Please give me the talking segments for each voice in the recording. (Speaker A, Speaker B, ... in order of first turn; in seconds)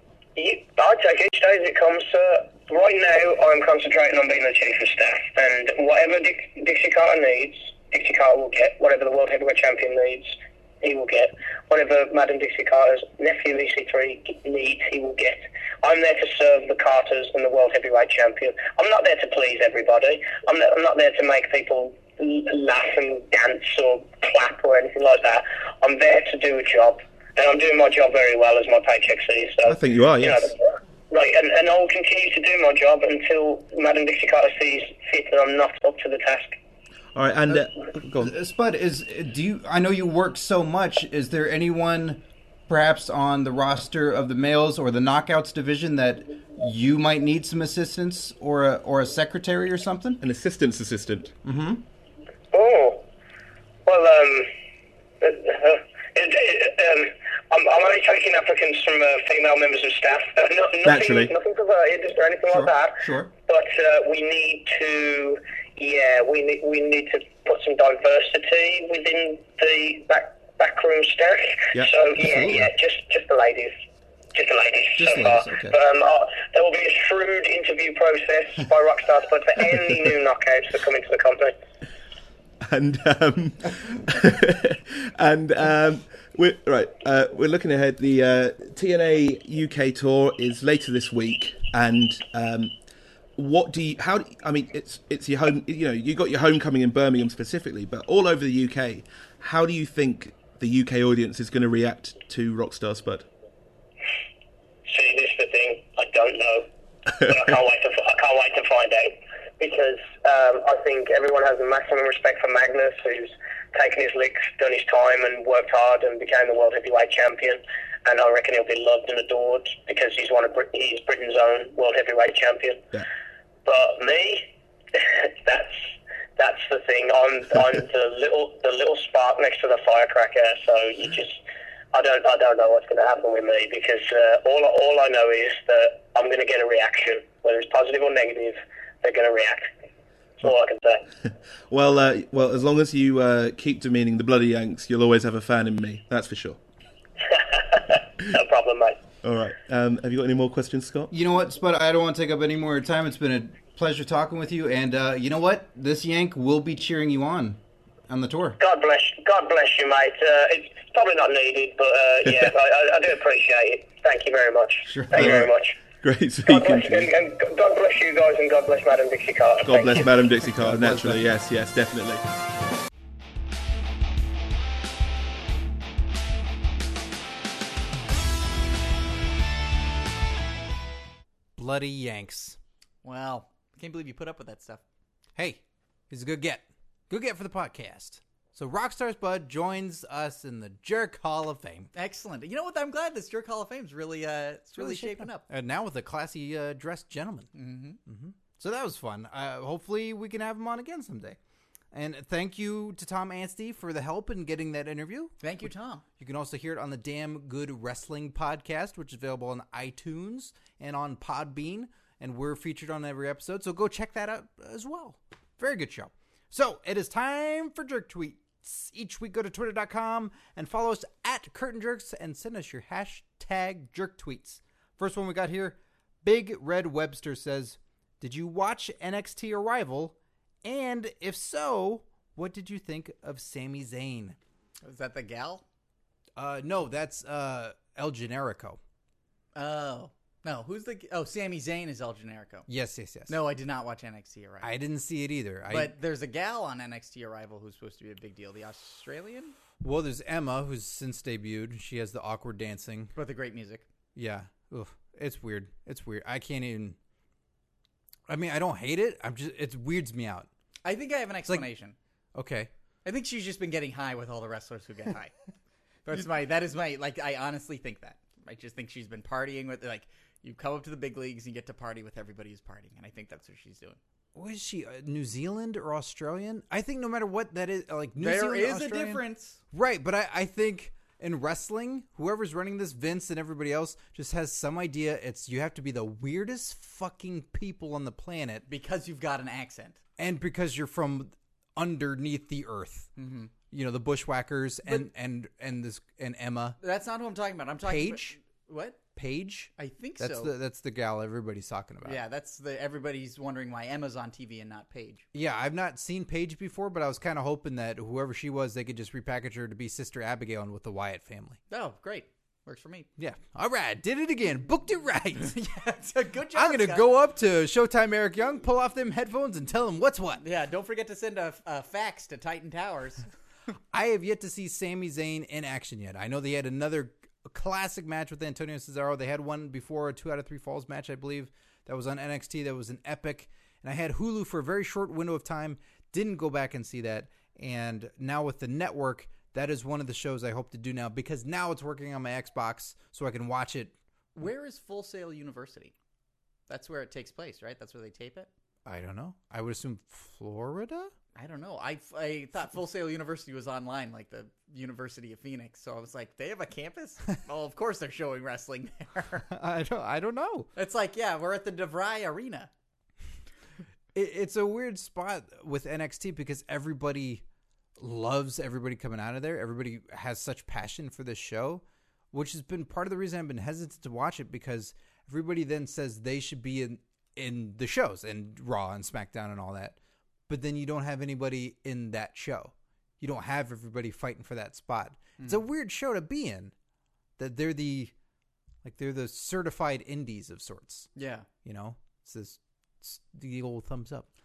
Speaker A: 0.3-36.6, 52.5-53.0, 53.9-54.5, 55.2-73.7, 74.3-81.5, 104.8-123.0, 123.6-131.4, 131.9-139.7, 140.4-141.0, 147.3-149.0, 158.6-165.8, 166.4-170.1
Speaker B: 29.7-30.5, 37.1-38.3, 50.2-51.3, 60.8-61.3, 82.6-92.7, 93.4-103.3, 141.7-146.6, 149.2-151.1, 165.1-165.5, 166.0-167.1, 169.7-172.2
Speaker C: 38.2-50.2, 51.4-51.8, 62.5-63.3, 72.2-72.7, 75.0-75.7, 151.1-158.6, 164.9-165.4, 170.6-171.2, 181.6-182.6, 185.3-191.9, 194.8-197.5, 198.1-201.4, 201.9-205.5, 206.2-234.4, 236.3-238.8, 242.7-243.4, 244.6-245.9, 249.8-253.1, 254.1-257.0, 258.3-260.5, 262.3-262.7, 274.3-288.6, 290.2-293.1, 293.7-296.8, 297.8-298.4, 299.1-302.2, 305.3-311.6, 313.2-315.6, 316.5-320.4, 323.9-343.9, 348.8-351.1, 359.5-360.7, 364.1-367.4, 368.0-380.0, 380.5-386.7, 387.4-388.1, 388.8-391.1, 391.6-394.3
Speaker D: 183.0-184.8, 191.9-195.4, 197.5-198.0, 205.4-206.0, 234.8-235.6, 239.5-242.7, 243.3-244.7, 245.7-249.5, 253.2-253.8, 260.8-261.9, 263.0-265.3, 266.0-274.0, 278.2-279.6, 288.7-290.0, 293.2-293.5, 296.8-299.0, 299.8-300.5, 302.0-305.2, 311.7-313.1, 315.4-317.1, 320.4-323.3, 344.3-345.9, 346.7-348.5, 351.4-359.5, 360.7-362.7, 391.1-391.5